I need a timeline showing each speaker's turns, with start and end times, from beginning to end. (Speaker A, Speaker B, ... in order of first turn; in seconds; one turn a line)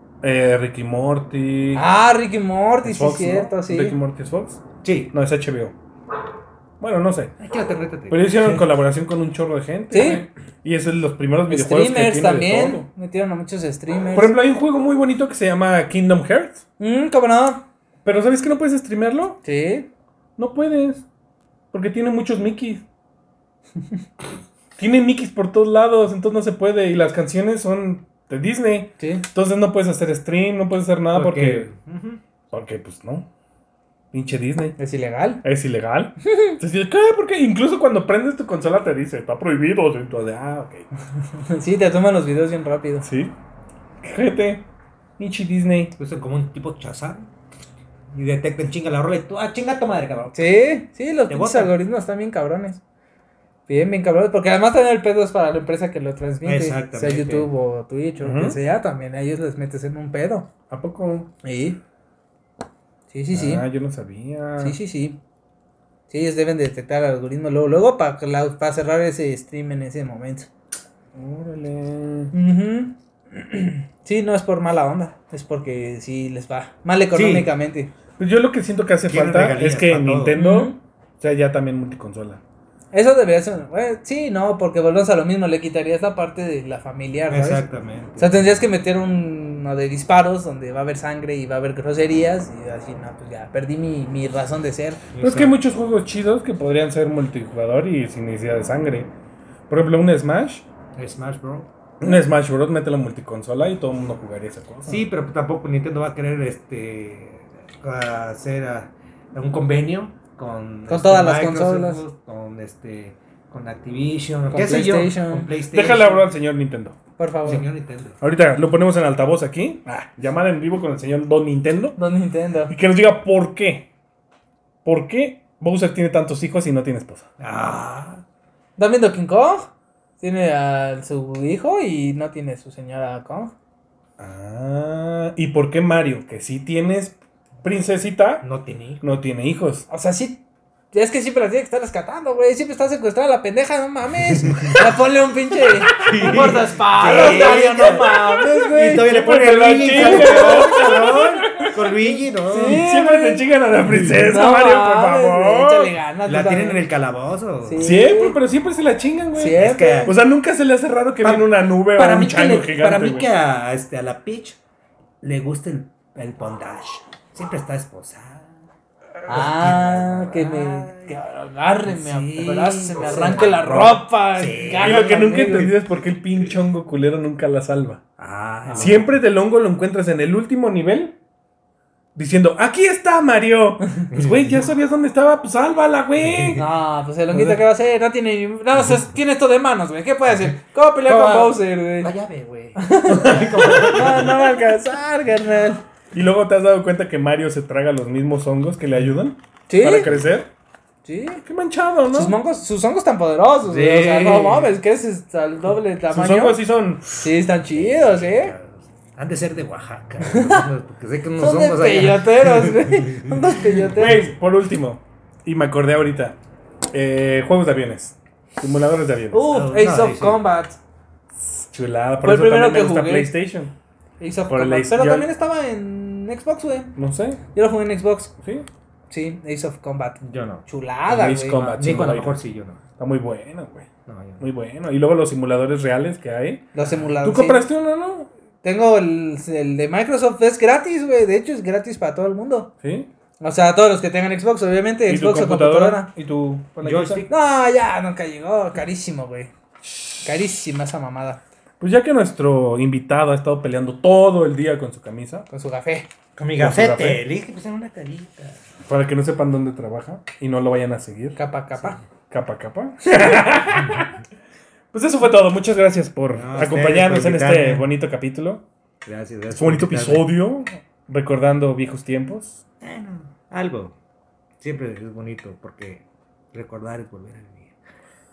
Speaker A: 0.2-1.8
Speaker B: 1.7-4.0
Speaker A: 2.8-5.7
Speaker C: 4.8-5.1
Speaker A: 6.8-7.3
Speaker C: 7.4-8.7
Speaker A: 8.1-12.8
Speaker B: 9.9-10.2
Speaker B: 11.5-14.3
Speaker A: 14.1-16.6
Speaker B: 16.8-17.6
Speaker A: 18.0-19.4
Speaker B: 19.4-19.9
Speaker A: 20.4-21.1
Speaker A: 21.7-22.9
Speaker A: 24.8-31.7
Speaker B: 29.0-29.2
Speaker C: 31.1-32.2
Speaker A: 32.5-33.3
Speaker A: 34.1-34.8
Speaker B: 34.8-35.4
Speaker A: 35.4-40.9
Speaker B: 36.3-36.6
Speaker B: 41.4-43.1
Speaker A: 43.0-43.3
Speaker A: 44.0-44.6
Speaker A: 45.2-45.9
Speaker C: 46.0-47.3
Speaker C: 48.1-50.5
Speaker B: 50.3-52.8
Speaker C: 51.3-51.7
Speaker B: 53.7-60.5
Speaker C: 56.4-57.5
Speaker A: 58.2-58.6
Speaker A: 60.7-61.3
Speaker B: 61.4-61.8
Speaker B: 63.1-63.6
Speaker A: 63.3-64.8
Speaker B: 64.6-65.2
Speaker B: 66.1-70.5
Speaker A: 71.1-72.3
Speaker B: 72.3-77.9
Speaker C: 77.1-77.5
Speaker A: 78.2-82.4
Speaker C: 79.1-80.4
Speaker B: 80.3-80.8
Speaker B: 82.9-87.6
Speaker C: 87.3-88.4
Speaker B: 88.2-95.0
Speaker C: 95.1-95.5
Speaker A: 95.2-99.1
Speaker A: 99.7-100.7
Speaker C: 101.0-101.7
Speaker A: 102.0-105.0
Speaker C: 104.9-116.3
Speaker B: 110.9-112.0
Speaker B: 114.5-115.5
Speaker A: 115.7-117.0
Speaker B: 117.2-117.6
Speaker C: 117.4-118.2
Speaker A: 118.2-122.0
Speaker B: 122.0-122.7
Speaker A: 122.7-123.9
Speaker A: 124.8-127.2
Speaker C: 127.4-128.2
Speaker B: 128.8-133.5
Speaker A: 134.2-138.4
Speaker C: 138.4-139.0
Speaker A: 139.0-139.8
Speaker B: 139.9-149.1
Speaker C: 144.4-144.8
Speaker A: 146.0-146.5
Speaker C: 146.0-152.8
Speaker A: 148.9-151.8
Speaker B: 149.8-151.3
Speaker B: 152.5-153.4
Speaker A: 152.6-155.9
Speaker B: 154.2-156.8
Speaker C: 156.2-157.9
Speaker B: 157.6-158.4
Speaker A: 157.8-163.3
Speaker B: 159.3-160.1
Speaker C: 159.5-160.1
Speaker C: 161.2-164.6
Speaker C: 165.2-168.5
Speaker C: 169.2-171.2
Speaker B: 169.2-175.7
Speaker C: 171.9-175.7
Speaker A: 174.8-178.0
Speaker C: 178.2-179.1
Speaker B: 178.7-179.0
Speaker A: 178.7-181.2
Speaker A: 182.1-186.6
Speaker C: 184.1-184.6
Speaker C: 186.3-186.6
Speaker B: 186.6-192.1
Speaker A: 187.3-187.6
Speaker C: 191.0-194.5
Speaker B: 192.8-195.8
Speaker A: 196.1-200.5
Speaker B: 199.7-200.1
Speaker C: 200.0-200.3
Speaker B: 201.0-201.4
Speaker A: 201.4-202.3
Speaker B: 202.1-206.6
Speaker C: 203.7-204.7
Speaker A: 206.1-207.2
Speaker B: 207.2-208.5
Speaker C: 207.6-213.8
Speaker B: 210.2-210.6
Speaker B: 211.4-214.3
Speaker A: 213.9-216.4
Speaker A: 216.9-219.4
Speaker B: 219.3-220.8
Speaker C: 219.5-220.4
Speaker A: 221.3-223.7
Speaker B: 222.2-223.3
Speaker B: 224.2-226.9
Speaker A: 224.5-225.3
Speaker A: 226.9-227.4
Speaker B: 227.5-228.3
Speaker A: 228.4-228.7
Speaker B: 229.1-231.6
Speaker C: 230.2-230.6
Speaker A: 231.1-232.4
Speaker C: 231.5-232.8
Speaker A: 233.0-233.9
Speaker C: 234.1-234.4
Speaker A: 234.4-236.7
Speaker B: 236.7-237.7
Speaker C: 236.8-237.1
Speaker A: 237.2-238.3
Speaker B: 238.6-242.7
Speaker A: 242.8-243.1
Speaker B: 243.4-246.1
Speaker A: 245.1-247.2
Speaker C: 246.8-247.3
Speaker B: 247.3-249.5
Speaker B: 250.2-251.4
Speaker A: 251.8-255.5
Speaker B: 255.5-256.1
Speaker C: 256.4-258.6
Speaker A: 256.6-257.2
Speaker A: 258.9-261.4
Speaker B: 261.4-262.0
Speaker A: 262.3-264.1
Speaker A: 264.9-268.6
Speaker C: 266.3-267.9
Speaker C: 269.0-270.3
Speaker A: 269.5-272.6
Speaker C: 272.8-273.9
Speaker C: 274.6-277.7